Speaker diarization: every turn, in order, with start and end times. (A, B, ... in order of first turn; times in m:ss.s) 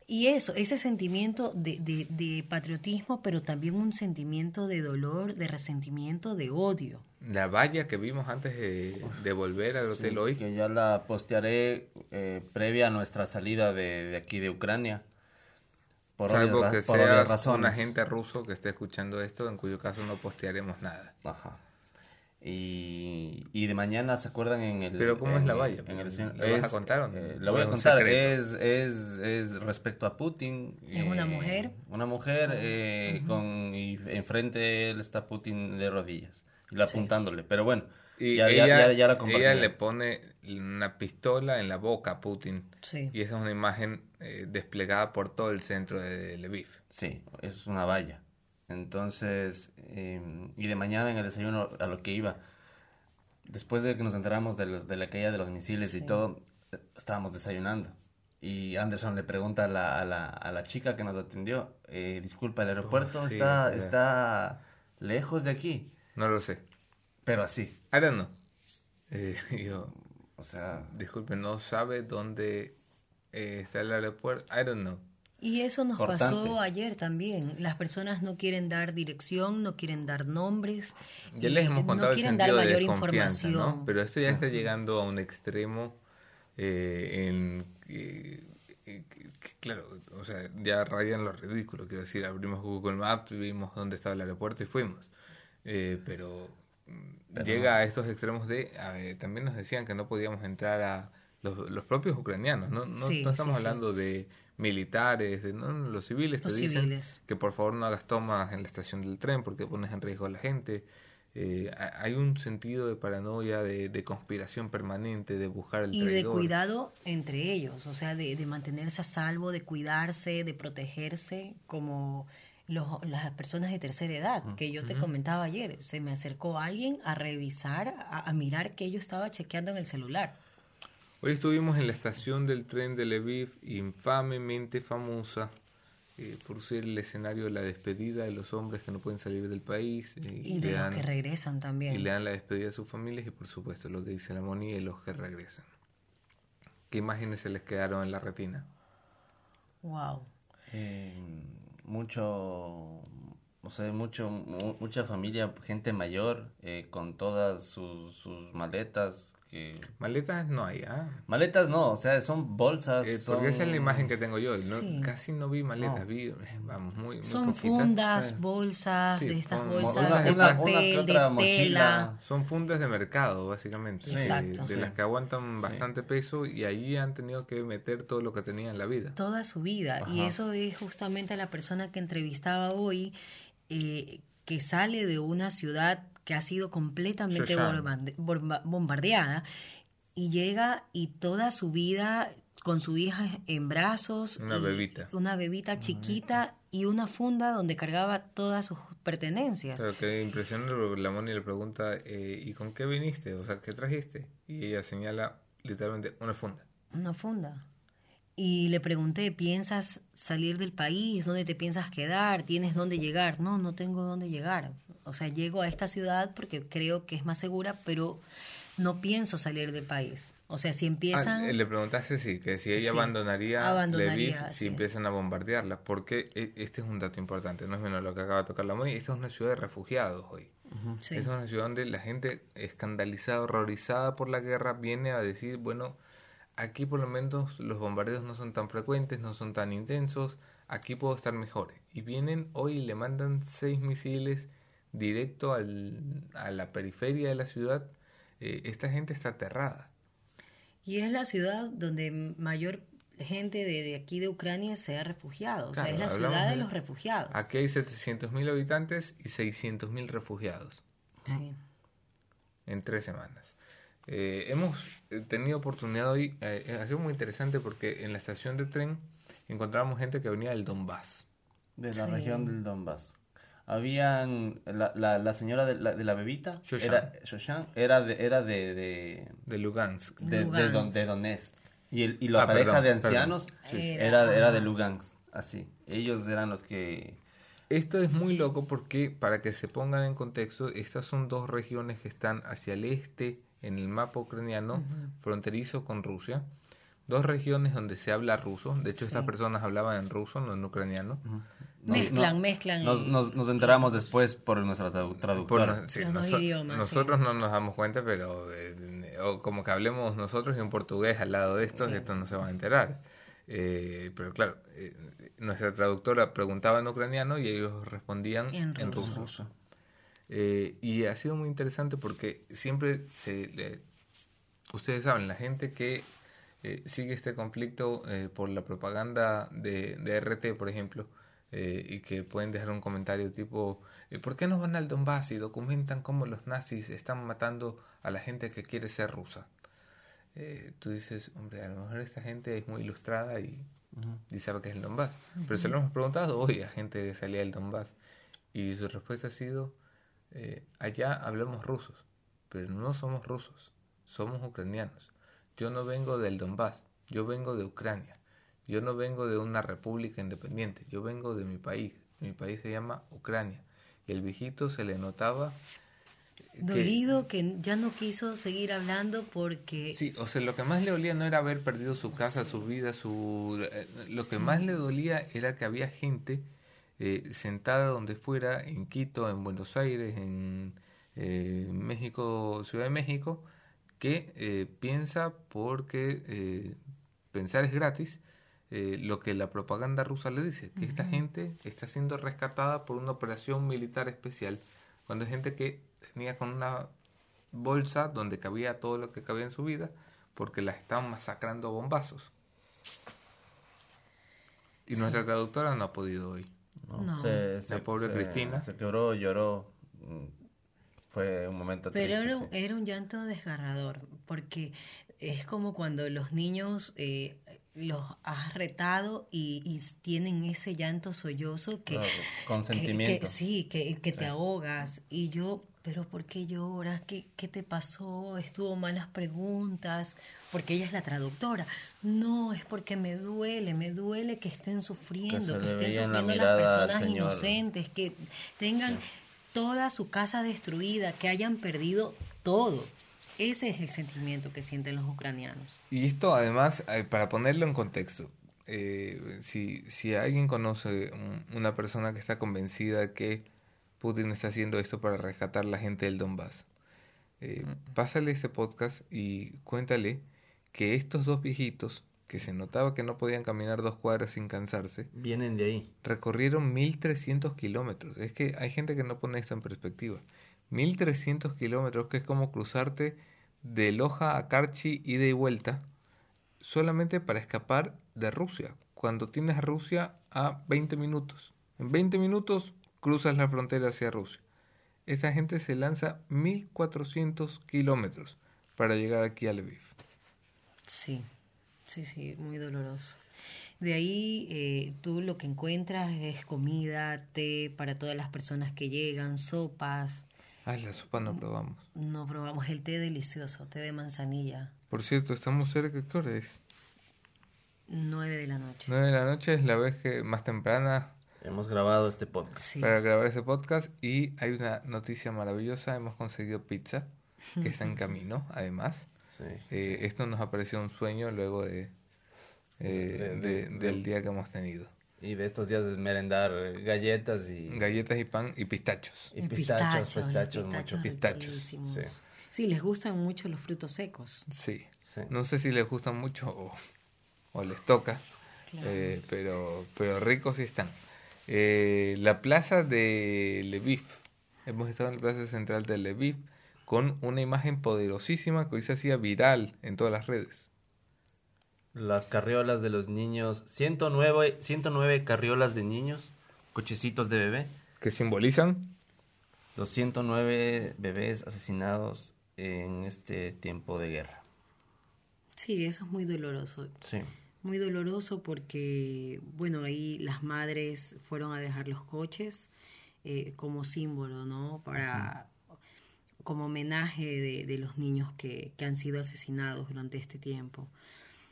0:00.1-0:07.0 A
0:07.2-0:10.4 B
0:09.9-0:15.0 C
0:16.2-0:17.9 C
0:16.3-0:21.1 B
0:21.2-0:21.6 C
0:22.4-0:39.7 C
0:25.0-0:28.4 B
0:30.9-0:31.8 A
0:32.5-0:33.4 A
0:36.8-0:37.1 A
0:38.2-0:46.8 B
0:42.8-0:43.1 A
0:46.9-0:52.4 C
0:53.4-1:05.9 C
0:55.8-0:56.2 A
1:02.8-1:04.0 B
1:06.2-1:06.6 B
1:07.2-1:07.8 C
1:07.9-1:08.4 B
1:09.1-1:10.0 B
1:10.4-1:10.9 C
1:10.8-1:12.8 B
1:13.3-1:15.0 B
1:15.4-1:23.9 A
1:16.0-1:16.6 C
1:21.3-1:26.0 B
1:26.6-1:35.1 B
1:35.6-1:56.5 B
1:37.4-1:37.7 C
1:43.0-1:43.8 A
1:46.4-1:47.2 A
1:55.9-2:10.4 A
2:04.8-2:05.1 B
2:11.2-2:15.5 B
2:16.2-2:21.1 B
2:20.4-2:22.1 A
2:21.9-2:25.7 B
2:26.9-2:28.7 B
2:29.8-2:30.3 A
2:30.7-2:39.9 C
2:40.0-2:41.2 B
2:41.3-2:44.1 C
2:43.0-2:48.0 B
2:44.6-2:45.1 A
2:45.8-2:46.1 C
2:47.2-2:52.1 A
2:48.1-2:48.4 C
2:49.1-2:50.6 B
2:49.8-2:52.2 C
2:52.2-2:59.2 B
2:54.0-2:54.7 A
2:54.1-2:55.0 C
2:59.2-3:03.2 A
3:00.0-3:00.3 B
3:03.7-3:09.5 A
3:07.3-3:07.9 B
3:10.2-3:19.9 A
3:14.4-3:15.1 B
3:15.8-3:16.1 C
3:19.8-3:26.7 B
3:26.9-3:27.7 A
3:28.4-3:38.2 A
3:38.8-3:41.6 A
3:41.1-3:50.5 B
3:42.7-3:44.9 A
3:51.0-3:51.3 A
3:51.1-3:56.0 B
3:56.6-4:09.9 B
4:10.8-4:17.4 A
4:15.7-4:16.7 B
4:17.3-4:20.8 B
4:21.3-4:21.5 A
4:22.7-4:31.3 B
4:31.8-4:39.4 C
4:31.9-4:32.5 A
4:36.6-4:37.1 B
4:39.5-4:40.2 B
4:40.2-4:41.0 A
4:40.2-4:47.2 C
4:42.4-4:43.8 B
4:43.6-4:44.7 A
4:47.7-4:56.5 B
4:54.7-4:55.1 A
4:57.1-5:01.2 B
4:59.0-4:59.3 A
5:01.3-5:05.8 C
5:01.9-5:04.1 A
5:01.9-5:02.2 B
5:05.4-5:19.3 B
5:05.9-5:07.2 A
5:11.7-5:12.1 A
5:18.5-5:19.3 A
5:18.9-5:19.5 C
5:20.3-5:23.8 B
5:24.7-5:26.1 B
5:26.6-5:39.5 B
5:40.4-5:43.7 B
5:44.3-5:48.0 B
5:48.5-5:49.8 B
5:50.3-6:05.6 B
6:06.6-6:07.0 B
6:06.6-6:10.3 A
6:09.9-6:16.5 B
6:14.3-6:14.6 A
6:17.0-6:23.5 B
6:24.0-6:26.8 B
6:27.3-6:36.9 B
6:30.8-6:31.2 A
6:37.5-6:42.3 B
6:44.9-6:46.5 B
6:46.9-6:50.3 C
6:47.0-6:47.5 A
6:47.7-6:48.7 B
6:51.1-6:52.5 C
6:51.9-7:25.8 A
7:01.9-7:03.4 C
7:15.3-7:17.6 C
7:25.9-7:33.5 B
7:34.0-7:36.7 B
7:37.4-7:45.1 B
7:45.1-7:45.9 C
7:46.0-7:55.9 B
7:56.6-8:04.4 B
8:05.1-8:09.9 B
8:10.9-8:11.3 A
8:11.9-8:13.2 A
8:13.8-8:20.2 A
8:20.7-8:21.8 B
8:22.0-8:24.7 A
8:24.9-8:26.6 B
8:27.9-8:28.9 A
8:28.9-8:31.1 B
8:31.4-8:32.7 C
8:32.6-8:33.0 A
8:32.8-8:39.1 B
8:39.4-8:40.0 C
8:39.7-8:41.9 B
8:42.8-8:44.9 B
8:42.9-8:44.0 C
8:45.2-8:47.9 C
8:47.7-8:49.3 B
8:49.3-8:51.1 C
8:49.4-8:54.5 A
8:51.0-8:51.7 B
8:54.5-8:56.8 B
8:57.5-8:58.2 B
8:58.7-8:59.2 A
8:58.8-9:01.0 B
9:01.5-9:10.7 B
9:11.9-9:17.7 C
9:18.0-9:19.0 B
9:19.8-9:24.4 C
9:25.6-9:27.0 A
9:27.0-9:27.3 C
9:27.6-9:32.7 A
9:33.2-9:35.5 A
9:35.0-9:35.3 C
9:36.4-9:40.9 A